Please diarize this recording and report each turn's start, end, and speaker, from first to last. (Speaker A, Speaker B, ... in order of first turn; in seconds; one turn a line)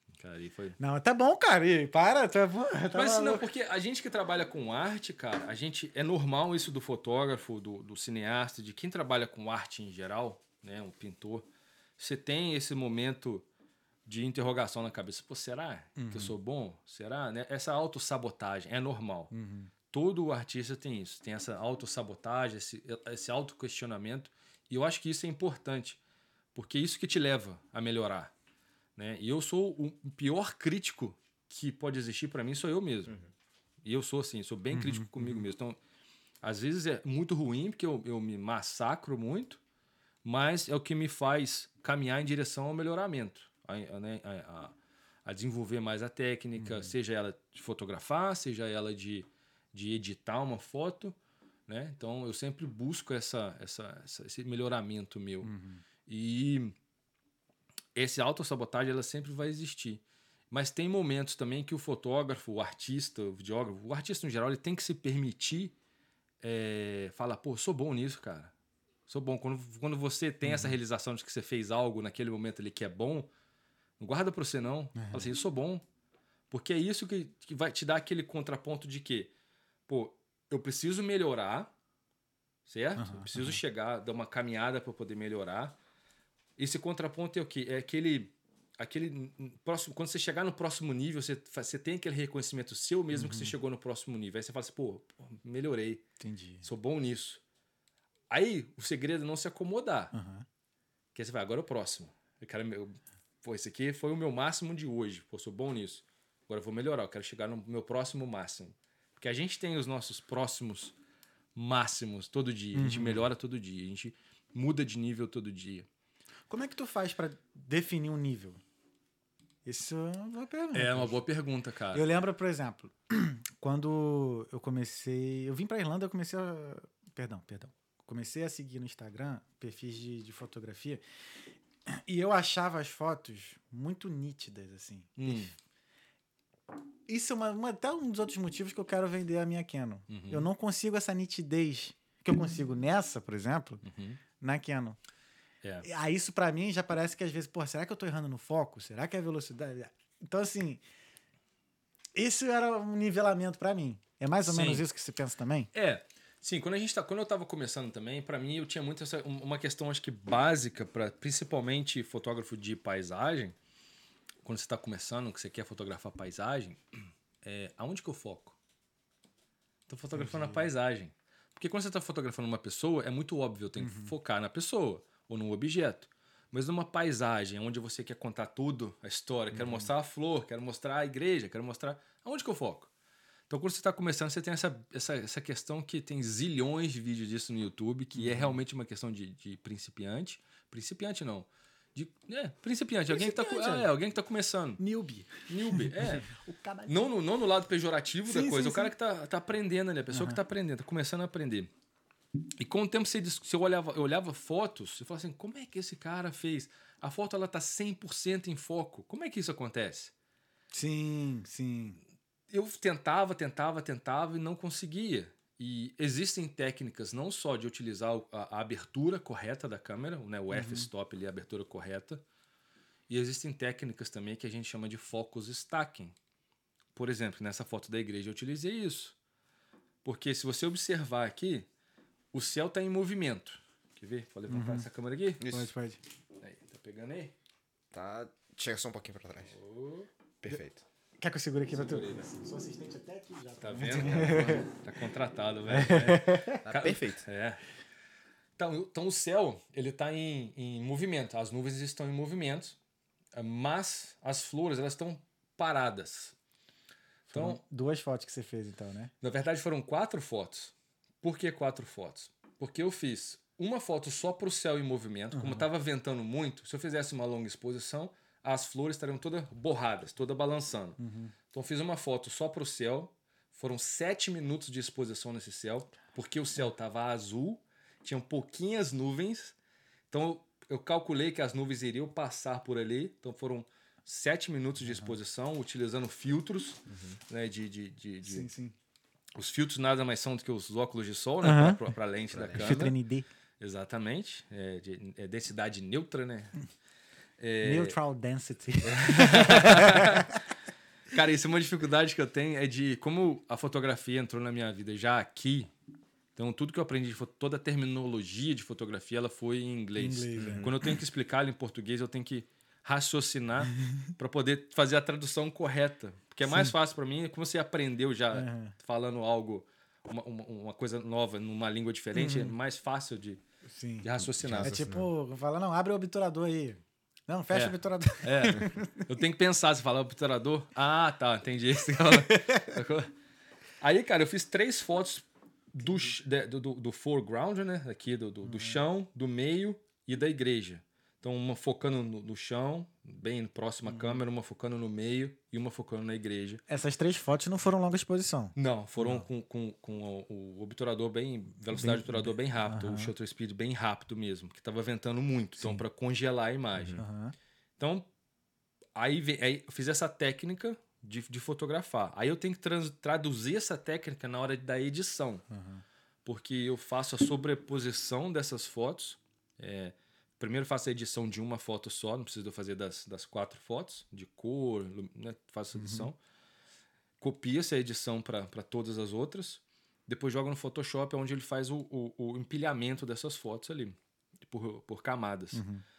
Speaker A: 0.2-0.8
Speaker B: 0.8-3.5
Speaker A: 2.9-13.4
Speaker A: 14.1-19.3
Speaker B: 16.0-16.3
Speaker B: 19.3-19.7
Speaker A: 19.9-26.0
Speaker A: 26.5-28.3
Speaker A: 28.9-33.2
Speaker A: 33.8-35.8
Speaker B: 34.7-35.4
Speaker A: 36.4-39.6
Speaker A: 40.2-44.7
Speaker A: 45.2-51.1
Speaker B: 46.6-46.9
Speaker A: 51.7-55.5
Speaker B: 55.4-55.8
Speaker A: 56.1-56.7
Speaker A: 57.9-65.7
Speaker A: 66.4-68.5
Speaker A: 69.1-73.3
Speaker B: 70.4-70.8
Speaker A: 74.0-75.8
Speaker B: 75.0-75.3
Speaker A: 76.5-79.3
Speaker A: 79.9-81.7
Speaker A: 82.7-85.7
Speaker B: 83.0-83.6
Speaker A: 86.6-96.0
Speaker B: 93.1-93.5
Speaker B: 96.2-96.7
Speaker A: 96.6-97.4
Speaker A: 98.3-100.1
Speaker B: 100.1-100.5
Speaker A: 101.1-110.9
Speaker A: 111.5-115.9
Speaker B: 112.7-113.2
Speaker B: 116.5-118.6
Speaker B: 119.6-121.2
Speaker A: 120.7-122.1
Speaker B: 121.9-131.0
Speaker B: 131.9-135.5
Speaker A: 135.2-135.5
Speaker B: 137.1-143.8
Speaker A: 140.1-140.4
Speaker A: 143.8-144.2
Speaker B: 144.4-145.0
Speaker B: 145.8-150.8
Speaker B: 152.2-155.7
Speaker A: 154.4-154.8
Speaker A: 155.7-163.5
Speaker A: 164.4-168.6
Speaker A: 169.9-182.9
Speaker B: 170.1-170.7
Speaker B: 173.8-174.1
Speaker B: 179.5-179.9
Speaker A: 183.5-194.8
Speaker B: 188.1-188.6
Speaker B: 193.1-193.9
Speaker B: 194.8-197.1
Speaker A: 195.3-196.3
Speaker A: 196.9-201.7
Speaker B: 198.3-198.9
Speaker B: 200.1-200.4
Speaker A: 202.6-210.1
Speaker B: 210.7-212.0
Speaker A: 212.5-222.2
Speaker B: 220.5-220.9
Speaker A: 223.1-226.1
Speaker A: 226.9-229.1
Speaker A: 230.0-231.7
Speaker A: 232.3-235.4
Speaker B: 234.5-234.8
Speaker C: 235.4-235.7
Speaker B: 235.5-236.0
Speaker A: 236.4-237.3
Speaker C: 237.9-239.5
Speaker A: 239.5-240.1
Speaker C: 240.4-240.8
Speaker B: 241.2-244.7
Speaker A: 241.7-242.4
Speaker A: 243.6-247.6
Speaker B: 245.7-246.6
Speaker C: 246.6-247.2
Speaker A: 248.6-252.8
Speaker A: 253.3-256.4
Speaker A: 257.3-257.6
Speaker B: 257.3-259.1
Speaker A: 259.2-271.0
Speaker B: 265.3-265.6
Speaker B: 271.0-271.3
Speaker A: 271.5-279.5
Speaker A: 280.1-288.5
Speaker B: 284.8-285.1
Speaker C: 286.9-287.1
Speaker B: 288.2-288.7
Speaker A: 289.4-292.9
Speaker B: 291.4-291.8
Speaker C: 292.3-292.8
Speaker B: 292.6-293.3
Speaker A: 293.6-296.6
Speaker A: 297.4-298.0
Speaker B: 297.6-300.4
Speaker A: 298.8-300.4
Speaker A: 301.1-305.7
Speaker A: 306.4-323.4
Speaker B: 310.0-310.7
Speaker C: 310.4-310.7
Speaker B: 316.4-316.7
Speaker B: 318.3-318.7
Speaker B: 322.1-322.5
Speaker B: 323.7-324.1
Speaker A: 324.0-324.7
Speaker C: 324.2-325.1
Speaker B: 324.6-329.1
Speaker A: 327.5-333.1
Speaker B: 332.0-332.7
Speaker A: 333.8-346.6
Speaker B: 338.4-338.8
Speaker B: 343.9-344.2
Speaker B: 346.7-349.3
Speaker A: 348.6-357.0
Speaker B: 351.7-353.1
Speaker B: 357.0-357.3
Speaker A: 357.8-358.1
Speaker A: 358.9-365.4
Speaker B: 365.5-365.8
Speaker A: 366.2-376.1
Speaker B: 375.8-376.1
Speaker A: 377.2-385.6
Speaker B: 385.5-385.8